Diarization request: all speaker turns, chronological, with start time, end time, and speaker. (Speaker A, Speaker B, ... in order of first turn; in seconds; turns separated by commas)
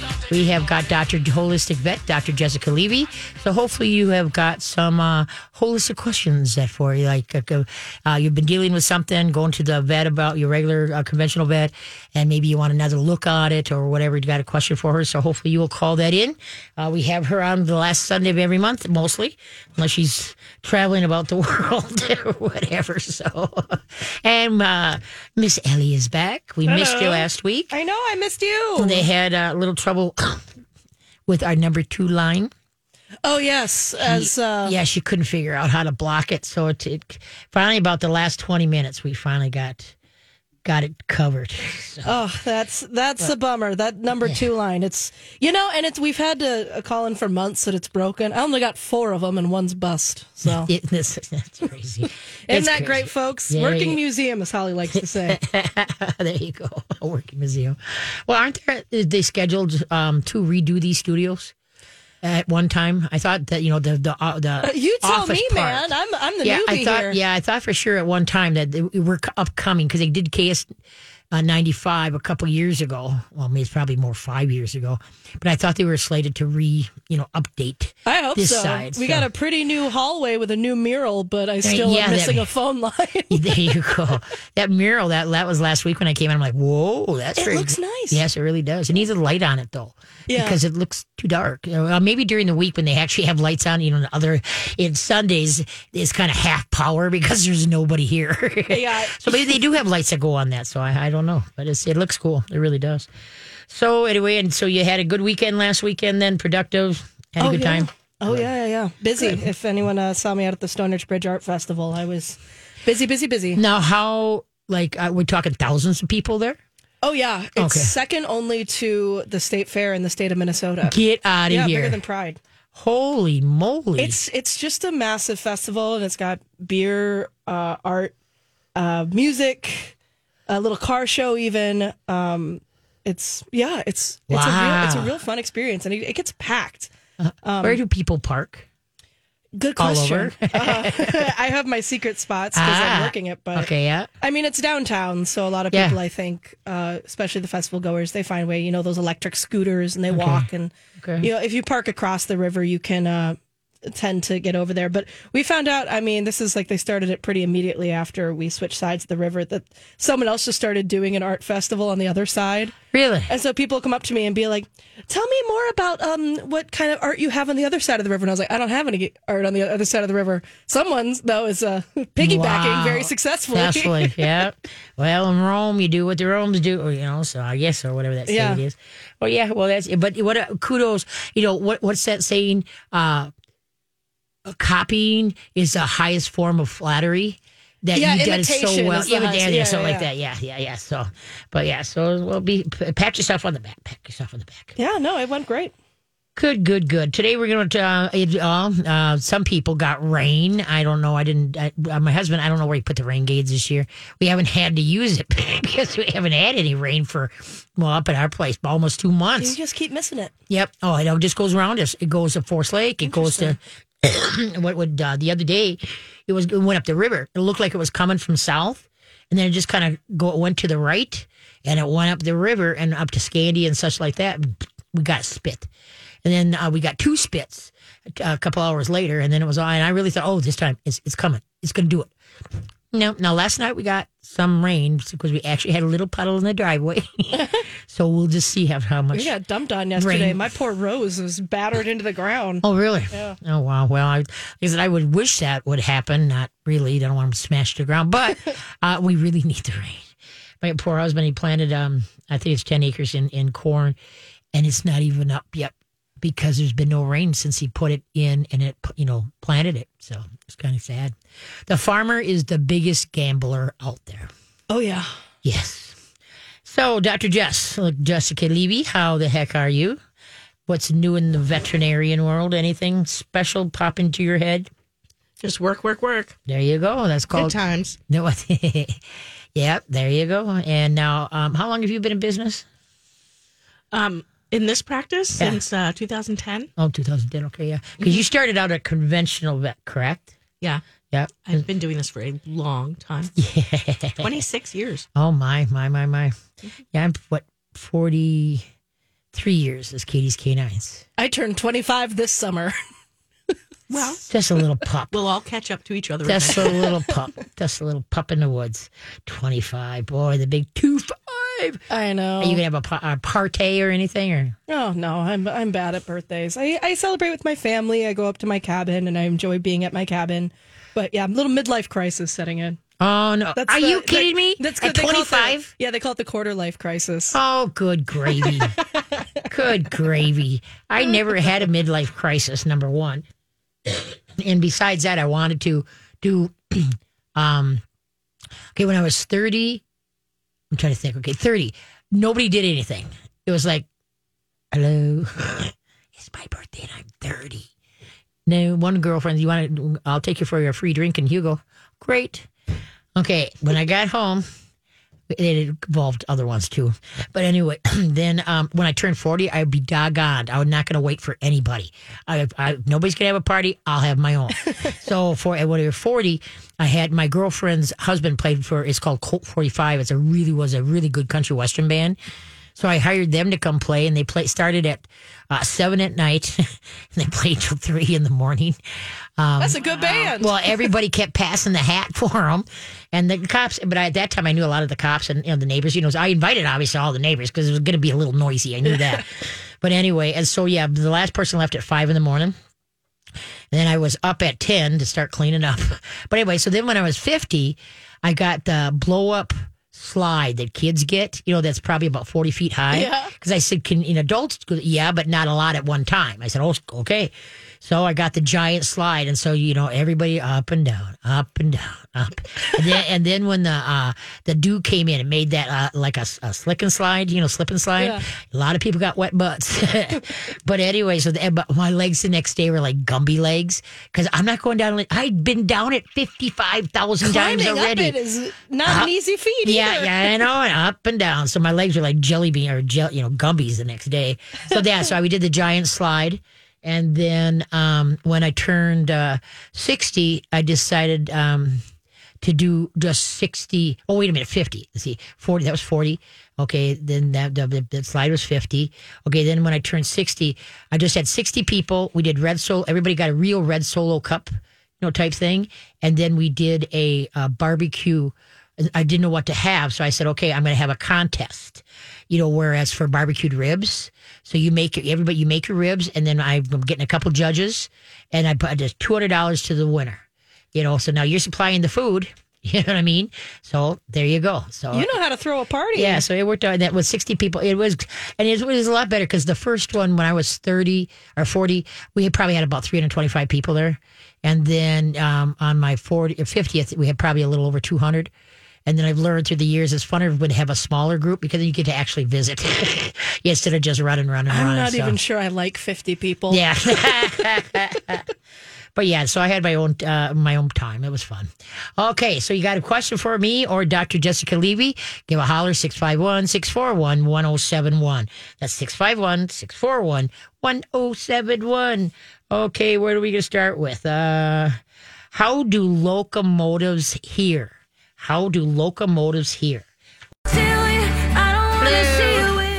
Speaker A: 0.3-27.7, Speaker B: 26.6-29.0, Speaker A: 28.8-30.4, Speaker A: 31.3-32.5, Speaker B: 33.2-34.8, Speaker A: 34.0-39.9, Speaker A: 40.6-42.1, Speaker B: 42.0-50.7, Speaker A: 50.5-54.0, Speaker B: 52.5-55.4, Speaker A: 55.0-61.5, Speaker A: 62.2-65.9, Speaker B: 64.6-67.2, Speaker A: 66.4-70.7, Speaker A: 71.3-79.3, Speaker B: 78.0-83.8, Speaker A: 81.6-82.5, Speaker A: 83.3-103.1, Speaker B: 87.4-88.2, Speaker B: 90.3-90.6, Speaker B: 98.7-99.6, Speaker A: 103.7-108.4, Speaker B: 107.4-113.6, Speaker A: 113.5-116.6, Speaker B: 117.0-122.4, Speaker A: 117.5-117.9, Speaker A: 120.8-122.0, Speaker A: 122.7-124.2, Speaker B: 124.0-128.1, Speaker B: 128.8-129.9, Speaker B: 130.5-136.9, Speaker A: 134.3-135.2, Speaker A: 137.2-138.7, Speaker B: 137.4-137.8, Speaker B: 139.6-143.7, Speaker A: 139.8-141.3, Speaker A: 142.6-144.1, Speaker B: 144.2-162.7, Speaker A: 145.7-146.0, Speaker A: 150.1-150.4, Speaker A: 151.0-151.3, Speaker A: 162.9-163.3, Speaker B: 163.3-174.3, Speaker A: 172.2-183.3, Speaker B: 178.3-178.6, Speaker A: 184.4-194.7, Speaker B: 187.9-190.1, Speaker B: 194.8-195.7, Speaker A: 196.3-209.6, Speaker B: 209.4-210.3, Speaker A: 210.5-225.7, Speaker B: 213.1-213.6, Speaker A: 226.2-232.1, Speaker A: 232.9-239.3, Speaker B: 239.1-243.3, Speaker A: 239.9-240.4, Speaker A: 242.6-254.0, Speaker A: 254.5-261.1, Speaker A: 261.7-264.3, Speaker B: 264.7-265.1, Speaker A: 265.4-266.0, Speaker A: 266.6-270.0, Speaker A: 270.7-274.7, Speaker C: 275.4-276.4, Speaker A: 276.5-277.6, Speaker C: 277.3-278.0, Speaker A: 278.1-279.0, Speaker A: 279.5-282.6, Speaker C: 283.9-286.7, Speaker A: 286.8-290.3, Speaker C: 288.0-288.2, Speaker A: 291.1-291.6, Speaker C: 291.4-293.3, Speaker A: 293.4-294.4, Speaker C: 294.2-295.1, Speaker A: 295.1-296.3, Speaker A: 296.9-298.7, Speaker A: 299.3-301.0, Speaker B: 301.2-302.8, Speaker C: 303.9-304.2, Speaker A: 304.2-305.1, Speaker C: 305.1-306.7, Speaker A: 306.2-311.8, Speaker B: 306.6-307.1, Speaker B: 311.9-312.6, Speaker A: 312.4-314.6, Speaker B: 314.7-322.8, Speaker A: 323.0-325.7, Speaker B: 323.5-327.4, Speaker A: 327.3-328.7, Speaker B: 328.3-329.4, Speaker A: 329.5-333.2, Speaker A: 333.9-337.8, Speaker A: 338.7-339.8, Speaker A: 340.7-343.9, Speaker A: 344.7-347.7, Speaker A: 348.4-352.5, Speaker A: 353.1-354.4, Speaker A: 355.3-372.2, Speaker A: 372.8-378.8, Speaker A: 379.4-392.5, Speaker B: 379.6-380.9, Speaker C: 379.9-380.2, Speaker A: 393.7-428.1, Speaker B: 402.9-403.3, Speaker B: 418.0-418.2, Speaker B: 427.2-430.3, Speaker A: 428.8-429.1, Speaker A: 429.6-441.9, Speaker A: 442.4-470.2, Speaker A: 470.7-475.1, Speaker B: 474.9-476.2, Speaker A: 475.9-488.3, Speaker A: 488.9-495.2, Speaker B: 494.5-497.4, Speaker A: 496.5-498.2, Speaker A: 498.9-514.8, Speaker A: 515.3-519.9, Speaker B: 520.7-521.6, Speaker A: 521.8-522.6